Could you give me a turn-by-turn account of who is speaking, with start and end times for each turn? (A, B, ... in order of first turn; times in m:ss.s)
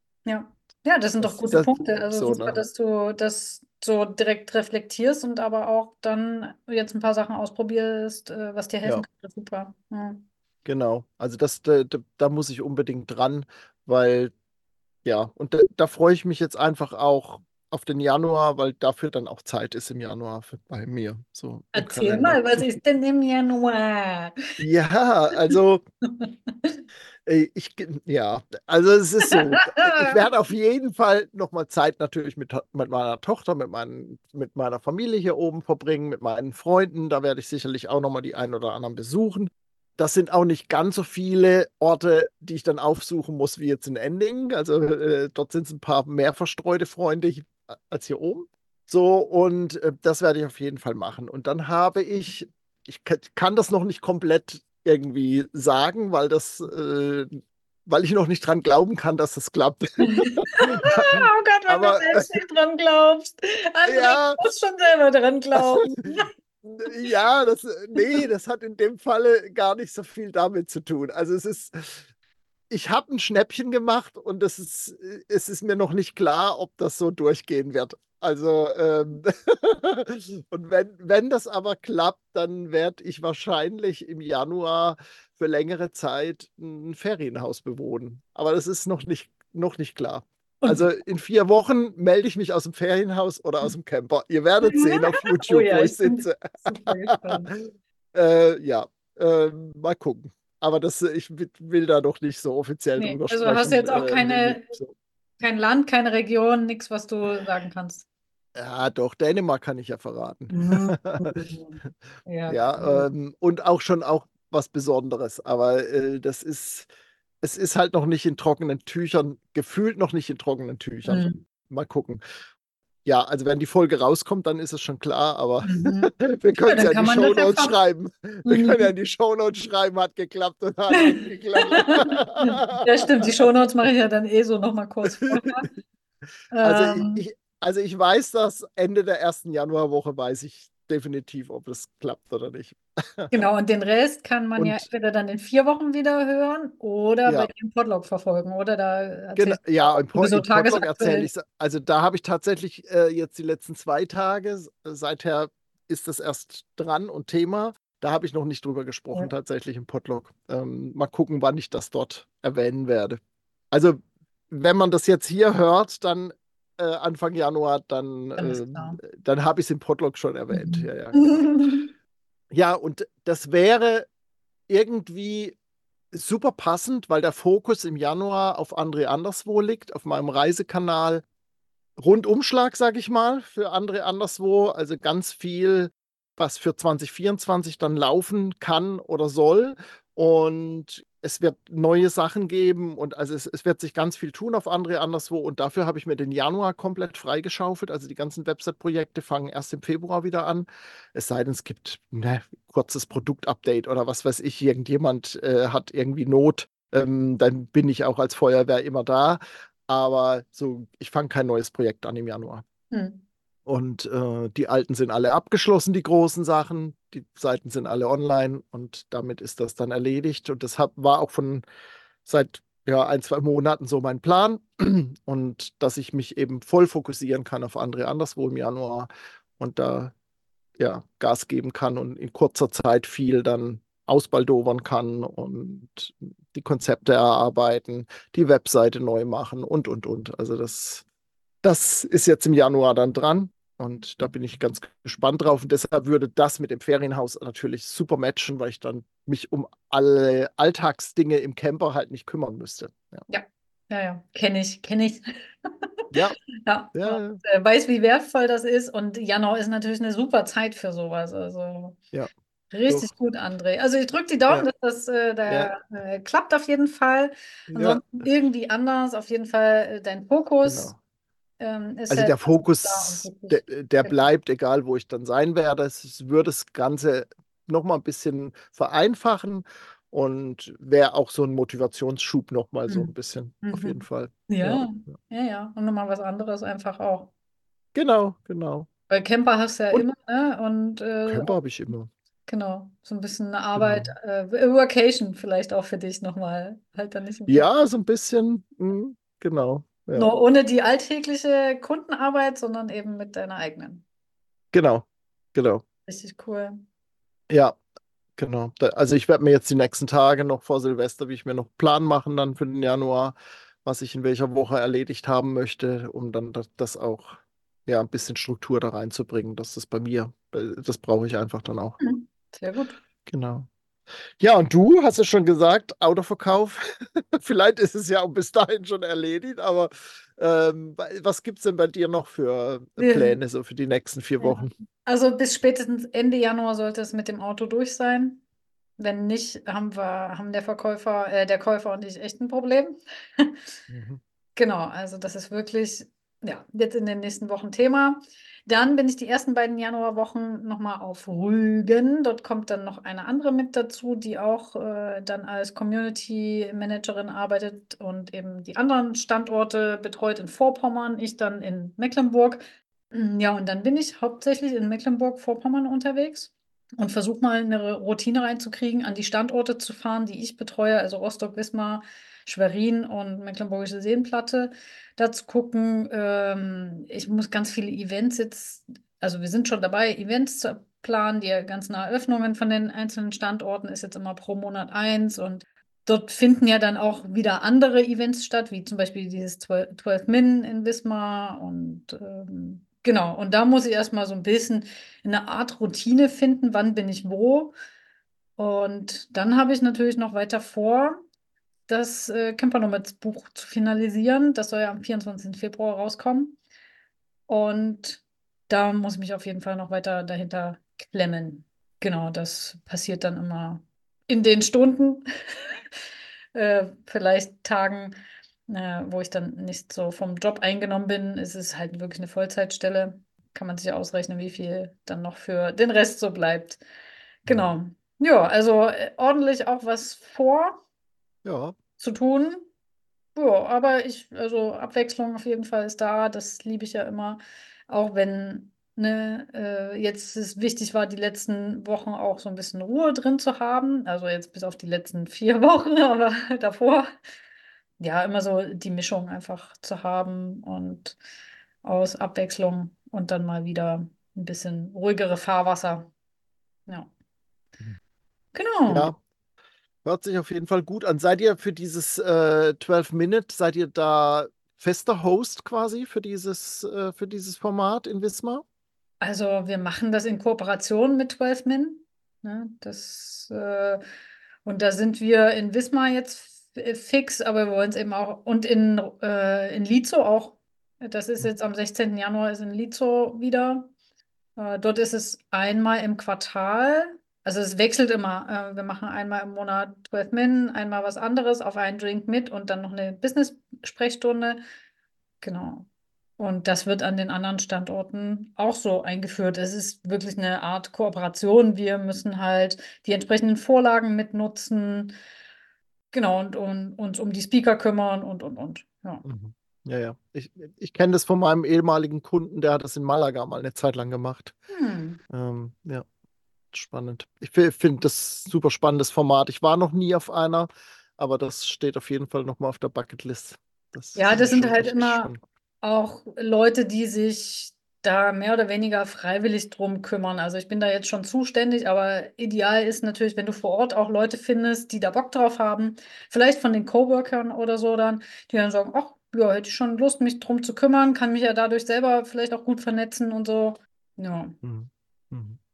0:00.3-0:10.2 A
0:01.2-0:02.6 B
0:10.6-0:14.3 B
0:15.0-0:22.8 B
0:21.7-0:24.4 A
0:24.6-0:25.8 B
0:26.2-0:26.8 A
0:27.2-1:02.3 B
0:29.3-0:30.2 A
1:00.2-1:06.3 A
1:03.9-1:04.4 B
1:05.6-1:12.1 B
1:08.0-1:08.2 A
1:12.7-1:44.9 B
1:30.6-1:30.9 A
1:34.6-1:37.5 A
1:43.0-1:44.8 A
1:45.4-1:48.0 A
1:48.6-1:51.4 B
1:50.5-1:53.1 A
1:52.5-1:56.9 B
1:57.4-2:02.2 B
2:01.0-2:01.4 A
2:03.0-2:13.3 B
2:05.6-2:06.1 A
2:06.6-2:07.8 A
2:08.4-2:08.9 A
2:10.9-2:15.7 A
2:15.1-2:15.7 B
2:16.5-2:17.2 A
2:16.6-2:23.3 B
2:23.3-2:31.3 A
2:24.6-2:24.9 B
2:27.3-2:27.5 B
2:29.4-2:43.2 B
2:43.7-2:51.8 B
2:48.4-2:49.0 A
2:50.5-2:51.9 A
2:52.5-2:54.1 B
2:54.7-2:55.6 B
2:56.1-3:01.2 B
3:02.0-3:32.6 B
3:32.9-3:33.2 A
3:33.7-3:41.6 B
3:42.2-3:50.1 B
3:50.8-4:01.1 B
4:01.6-4:13.2 B
4:13.3-4:15.7 A
4:16.1-4:16.4 B
4:16.6-4:22.0 A
4:17.0-4:17.4 B
4:22.7-4:30.9 A
4:25.5-4:25.7 B
4:27.7-4:28.1 B
4:30.6-4:31.0 B
4:31.6-4:34.2 A
4:32.1-4:45.1 B
4:42.9-4:47.3 A
4:48.0-4:48.9 B
4:49.1-4:51.5 A
4:51.3-4:52.1 B
4:52.5-4:57.7 A
4:53.8-4:54.2 B
4:57.5-5:00.3 B
5:00.1-5:04.0 A
5:04.7-5:05.8 B
5:06.1-5:06.8 A
5:07.5-5:07.8 B
5:08.4-5:22.0 B
5:22.0-5:23.0 A
5:23.3-5:23.7 B
5:24.4-5:34.7 B
5:33.0-5:33.4 A
5:34.4-5:38.4 A
5:39.0-5:43.6 A
5:43.9-5:44.2 B
5:44.6-6:37.7 A
6:38.6-6:41.2 A
6:41.9-6:46.6 A
6:47.5-6:55.8 A
6:56.6-6:58.2 A
6:58.7-7:06.8 A
7:07.4-7:10.8 A
7:07.5-7:07.7 B
7:11.4-7:11.8 B
7:12.0-7:12.6 A
7:13.4-7:27.1 A
7:28.0-7:31.2 A
7:31.8-7:36.1 A
7:38.5-7:39.1 A
7:38.9-7:39.2 B
7:40.0-7:48.6 B
7:49.2-7:54.0 A
7:54.6-8:03.9 A
8:04.6-8:14.6 A
8:15.4-8:15.9 A
8:16.4-8:25.1 A
8:26.1-8:29.2 A
8:29.2-8:34.6 B
8:34.7-8:35.2 A
8:35.3-8:36.1 B
8:36.7-8:45.4 B
8:44.2-9:04.6 A
9:04.6-9:05.6 B